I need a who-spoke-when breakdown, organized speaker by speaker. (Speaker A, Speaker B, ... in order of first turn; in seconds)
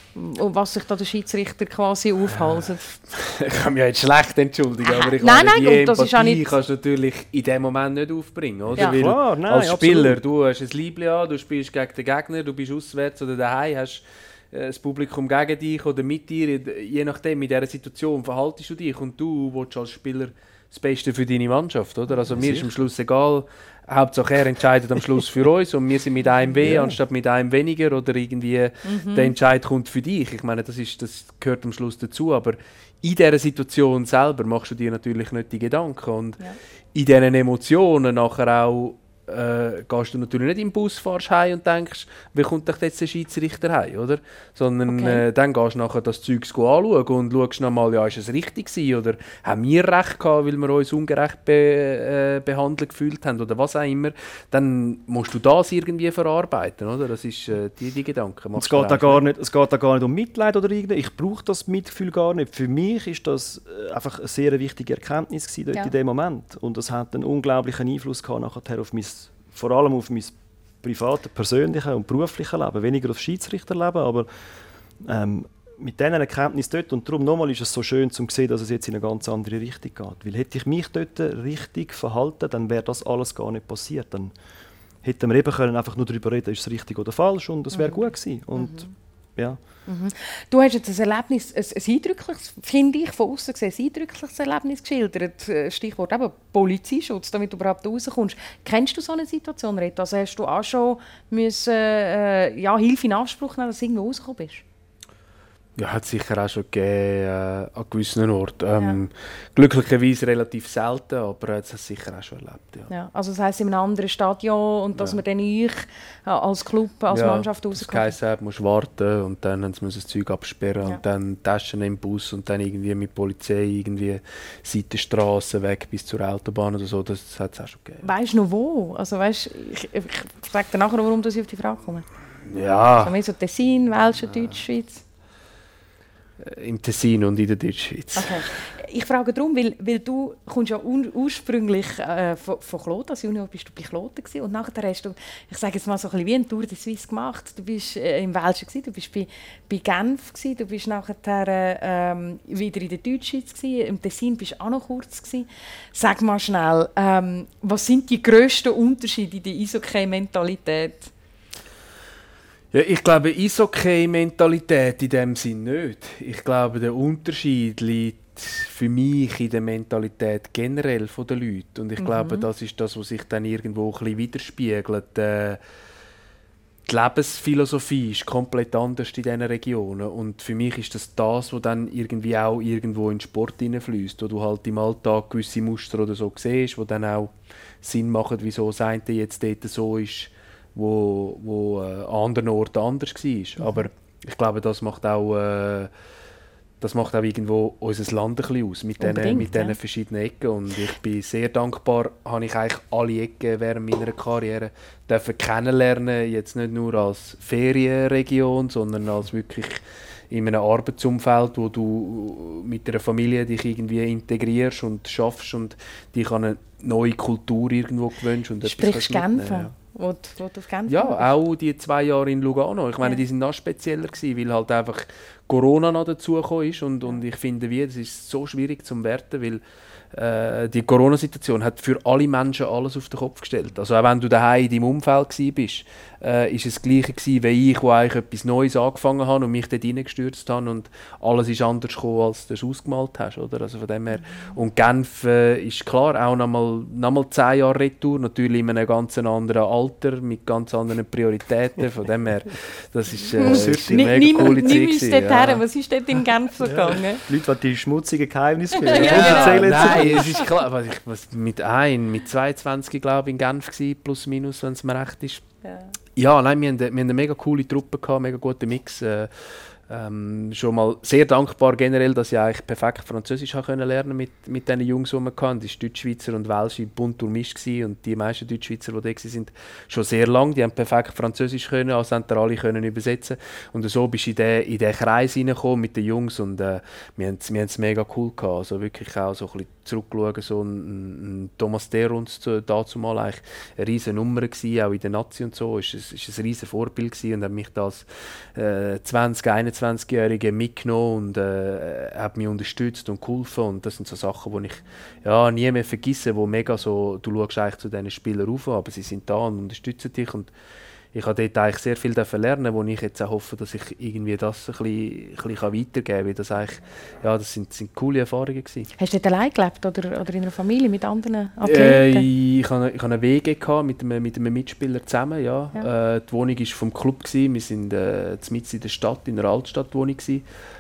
Speaker A: 0.1-2.9, 4.8-6.4, 28.9-29.3, 44.9-45.2, 87.7-88.9, 89.9-104.6, 108.8-109.0, 112.9-118.1, 128.0-132.1, 133.0-135.0, 138.2-161.1, 172.0-172.5, 193.6-193.9, 199.0-199.8, 218.6-221.3, 244.2-244.5, 253.4-257.2, 258.8-260.4, 265.6-265.9, 319.0-322.2
Speaker B: 3.1-36.4, 36.9-59.2, 105.8-112.9, 117.1-128.1, 132.5-133.1, 136.4-138.6, 162.7-175.6, 176.9-195.9, 196.8-219.7, 220.9-229.6, 230.1-255.6, 258.9-265.4, 266.2-310.5, 311.1-318.9, 321.6-330.4
Speaker C: 8.7-10.2, 22.3-22.7, 26.6-27.0, 58.6-74.3, 75.0-84.3, 85.0-89.6, 253.4-254.5, 256.6-260.5